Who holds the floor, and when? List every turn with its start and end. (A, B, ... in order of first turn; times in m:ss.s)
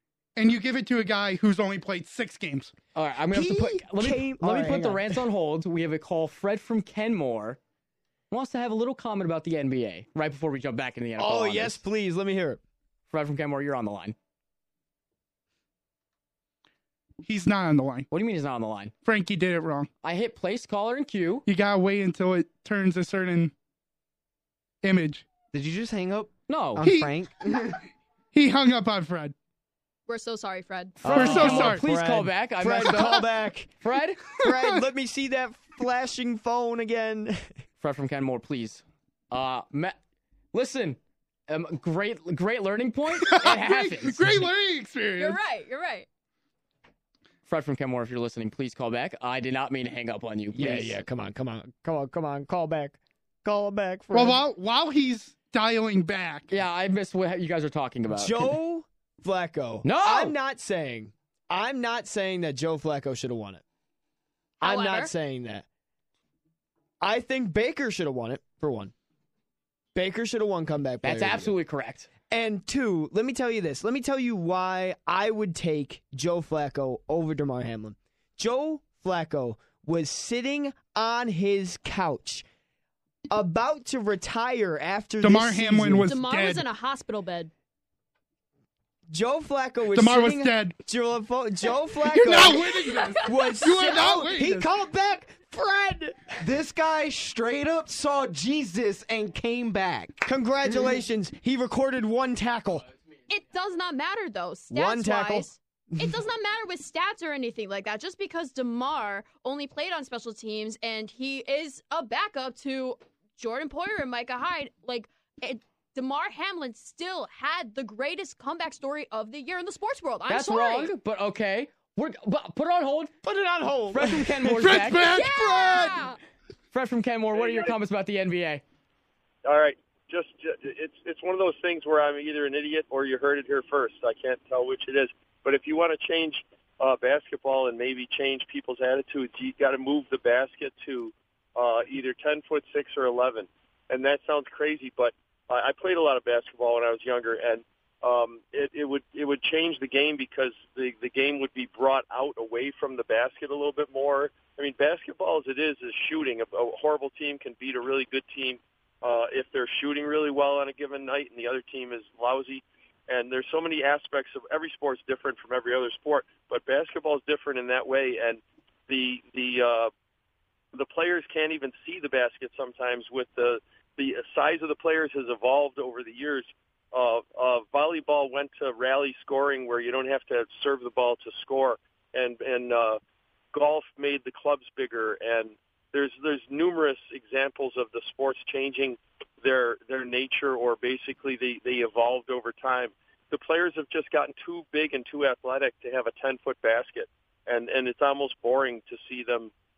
0:00.4-0:02.7 A
0:02.9-0:07.6 B
0:03.3-0:05.2 C
0:08.3-0:11.8 B
0:11.2-0:12.6 C
0:13.1-0:14.2 B
0:17.2-0:18.1 A
0:18.1-0:18.9 B
0:19.0-0:19.9 A
0:20.0-0:21.4 B
0:21.4-0:23.5 A
0:24.8-0:25.2 A
0:25.5-0:27.8 D
0:26.5-0:26.8 B
0:26.8-0:27.2 A
0:28.3-0:29.3 A
0:30.1-0:31.4 E
0:31.0-0:33.2 B
0:31.0-0:33.7 C
0:31.1-0:31.8 A
0:33.8-0:34.2 B
0:34.4-0:37.5 C
0:34.4-0:34.8 A
0:37.8-0:40.0 B
0:40.5-0:44.4 B
0:43.2-0:45.4 A
0:45.2-0:46.1 E
0:47.4-0:51.0 B
0:50.5-0:54.4 C
0:54.1-0:56.5 A
0:56.5-0:58.6 B
0:58.1-1:03.6 C
0:59.8-1:00.4 B
1:04.6-1:05.6 C
1:04.6-1:05.1 E
1:07.0-1:08.9 C
1:09.9-1:11.5 C
1:11.0-1:12.1 B
1:12.3-1:22.4 C
1:23.3-1:26.1 C
1:25.2-1:26.6 A
1:26.1-1:27.5 E
1:29.1-1:36.4 C
1:29.9-1:30.7 A
1:32.1-1:34.7 A
1:32.6-1:33.3 E
1:36.4-1:40.2 D
1:40.2-1:42.8 C
1:43.3-2:00.9 E
1:44.7-1:46.1 C
2:00.3-2:03.1 B
2:03.2-2:04.7 C
2:03.9-2:05.0 B
2:04.6-2:06.0 A
2:05.1-2:06.2 E
2:06.7-2:08.6 B
2:07.3-2:07.7 F
2:09.4-2:49.9 F
2:50.7-3:03.0 F
3:03.5-3:19.5 F